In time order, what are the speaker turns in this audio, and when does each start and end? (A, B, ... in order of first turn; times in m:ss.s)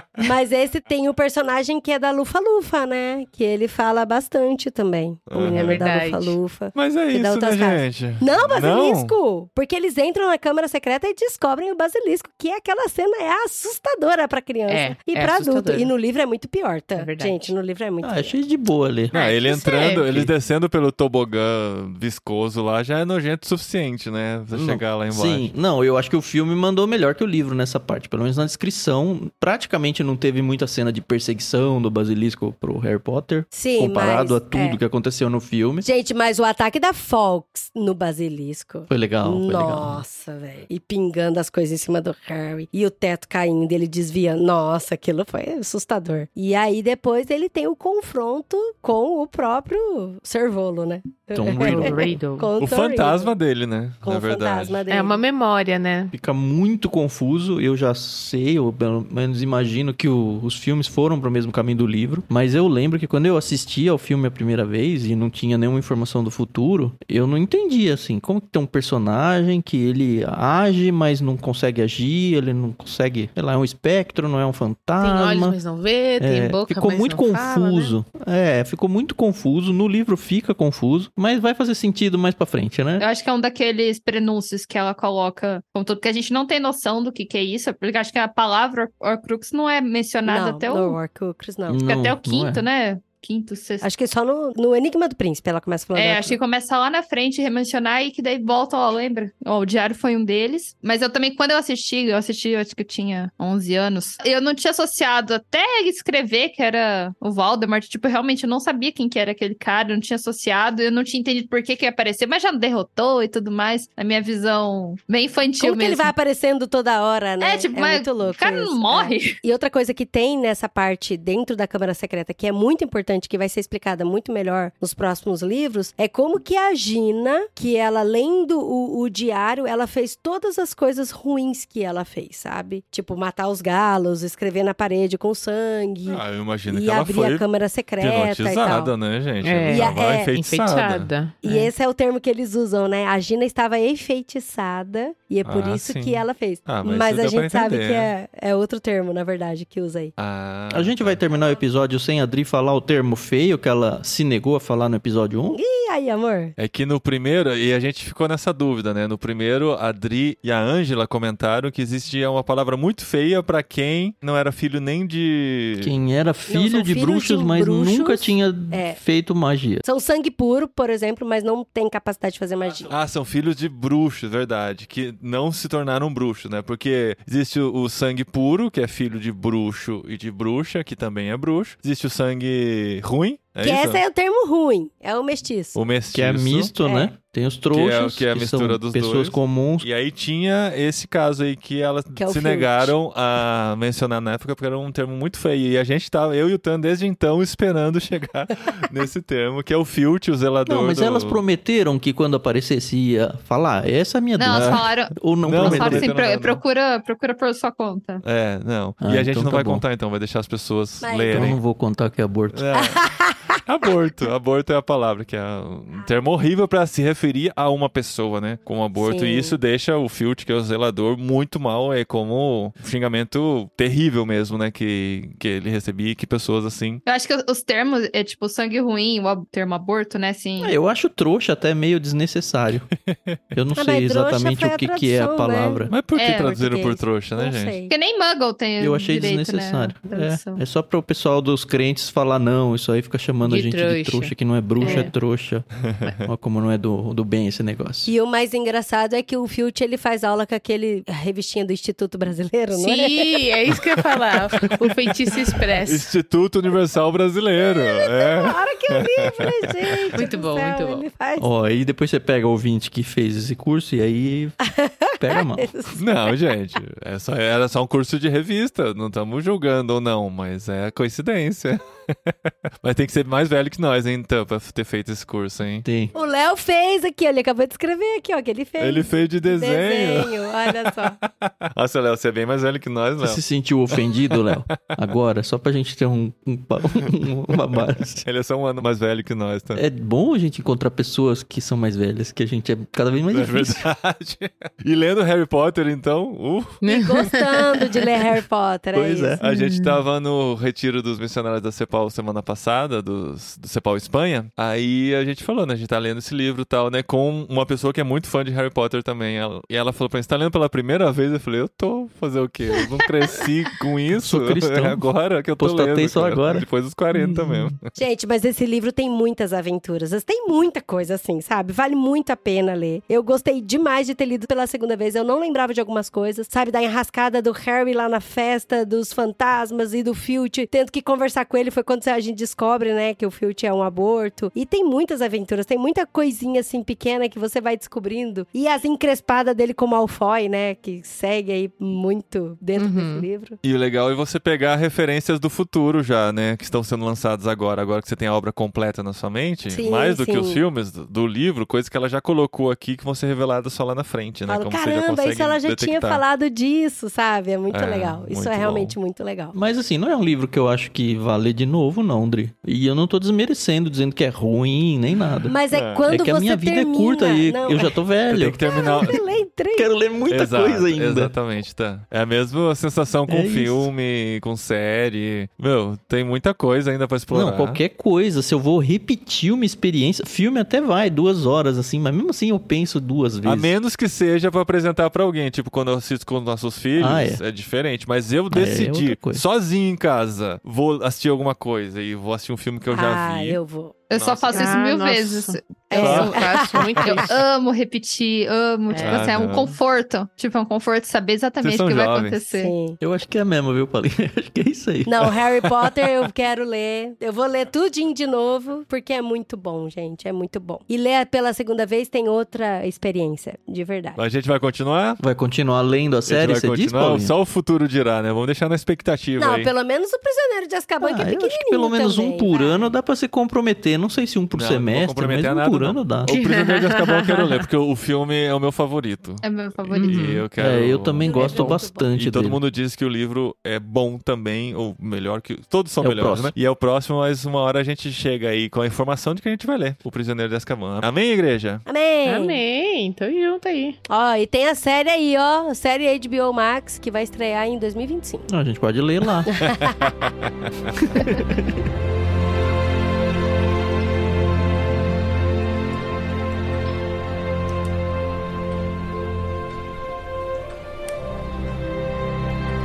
0:00.2-0:18.4 A
0:05.3-0:05.9 B
0:05.5-0:06.4 C
0:06.7-0:09.1 B
0:14.7-0:15.9 C
0:17.0-0:17.5 C
0:18.0-0:19.1 D
0:19.1-0:20.1 C
0:19.1-0:25.5 B
0:24.5-0:35.8 D
0:33.5-0:34.8 A
0:35.8-0:53.3 A
0:38.9-0:40.0 D
0:51.3-0:52.1 D
0:51.6-0:52.5 C
0:52.6-0:54.8 B
0:54.0-0:55.2 A
0:54.9-0:56.1 C
0:56.1-1:15.6 D
1:15.0-1:18.0 C
1:16.2-1:23.0 D
1:23.0-1:31.0 E
1:30.3-1:31.8 A
1:31.7-1:32.6 D
1:31.8-1:33.9 E
1:33.8-1:36.4 A
1:36.0-1:56.1 E
1:55.6-2:18.9 A
1:57.4-1:59.4 E
2:16.1-2:17.4 B
2:18.0-2:21.1 B
2:19.4-2:21.7 C
2:19.7-2:20.3 A
2:21.4-2:30.1 A
2:25.4-2:28.1 B
2:30.2-2:31.2 B
2:30.7-2:35.6 D
2:35.5-2:36.6 A
2:36.6-2:45.9 B
2:45.8-2:49.8 D
2:46.5-2:49.0 A
2:49.8-2:52.9 A
2:52.9-3:04.0 B
3:03.6-3:05.8 A
3:05.8-3:06.7 B
3:06.1-3:09.9 D
3:06.8-3:07.1 A
3:07.7-3:21.4 B
3:12.1-3:12.9 A
3:20.7-3:26.1 D
3:24.4-3:28.2 E
3:24.5-3:24.8 B
3:25.4-3:26.6 B
3:28.2-3:31.6 B
3:29.0-3:29.8 D
3:31.0-3:31.5 A
3:31.3-3:32.6 D
3:32.5-3:47.0 B
3:32.7-3:33.6 A
3:39.0-3:39.6 A
3:47.1-3:50.7 E
3:50.6-3:52.9 D
3:53.1-3:53.4 B
3:53.5-3:55.9 D
3:53.8-3:57.9 A
3:55.9-3:57.8 B
3:56.1-3:56.6 E
3:57.9-4:00.6 E
3:58.8-4:08.1 D
4:03.4-4:05.1 C
4:04.8-4:05.1 A
4:05.8-4:06.2 B
4:08.0-4:13.3 A
4:12.7-4:16.1 C
4:15.8-4:19.6 B
4:17.7-4:21.5 A
4:20.1-4:21.0 C
4:21.4-4:24.6 D
4:24.6-4:26.0 A
4:25.2-4:25.7 D
4:26.0-4:35.8 B
4:35.8-4:36.1 D
4:36.1-4:41.2 A
4:38.8-4:43.4 B
4:43.2-4:48.2 D
4:44.0-4:44.9 B
4:48.2-4:49.8 B
4:49.7-4:53.8 D
4:53.3-4:56.8 B
4:56.8-4:57.8 C
4:56.9-4:59.4 A
4:58.9-4:59.4 D
4:59.4-5:17.8 B
4:59.5-4:59.8 C
5:14.2-5:15.0 D
5:15.6-5:17.7 D
5:17.9-5:43.6 A
5:42.8-5:43.3 C
5:43.6-5:56.2 B
5:49.7-5:50.6 A
5:54.5-5:59.6 A
5:57.7-5:58.9 B
5:59.5-6:05.6 D
6:05.5-6:07.9 A
6:05.7-6:06.1 B
6:06.1-6:09.1 D
6:08.3-6:09.2 B
6:08.6-6:09.9 A
6:09.8-6:11.3 D
6:10.3-6:17.8 B
6:13.3-6:13.9 D
6:17.3-6:23.7 D
6:23.4-6:33.6 B
6:27.0-6:27.4 D
6:28.5-6:29.4 D
6:32.9-6:33.9 A
6:34.1-6:36.4 E
6:34.1-6:34.7 B
6:34.5-6:37.3 C
6:35.9-6:37.3 A
6:36.0-6:36.4 B
6:37.1-6:42.7 E
6:38.9-6:39.7 C
6:39.0-6:39.7 B
6:41.6-6:42.4 B
6:42.5-6:43.0 A
6:43.0-6:45.3 D
6:45.1-6:54.2 A
6:54.2-6:55.2 B
6:55.2-6:57.4 D
6:56.3-6:59.7 B
6:59.4-7:02.9 A
7:01.0-7:06.3 D
7:04.5-7:21.8 B
7:06.3-7:07.6 C
7:09.4-7:10.3 E
7:09.9-7:10.4 C
7:10.6-7:12.6 D
7:11.2-7:12.1 A
7:16.0-7:16.5 D
7:21.9-7:22.6 A
7:22.2-7:24.0 C
7:24.1-7:28.5 A
7:28.5-7:29.6 D
7:29.5-7:30.0 A
7:29.6-7:30.9 B
7:31.0-7:31.7 D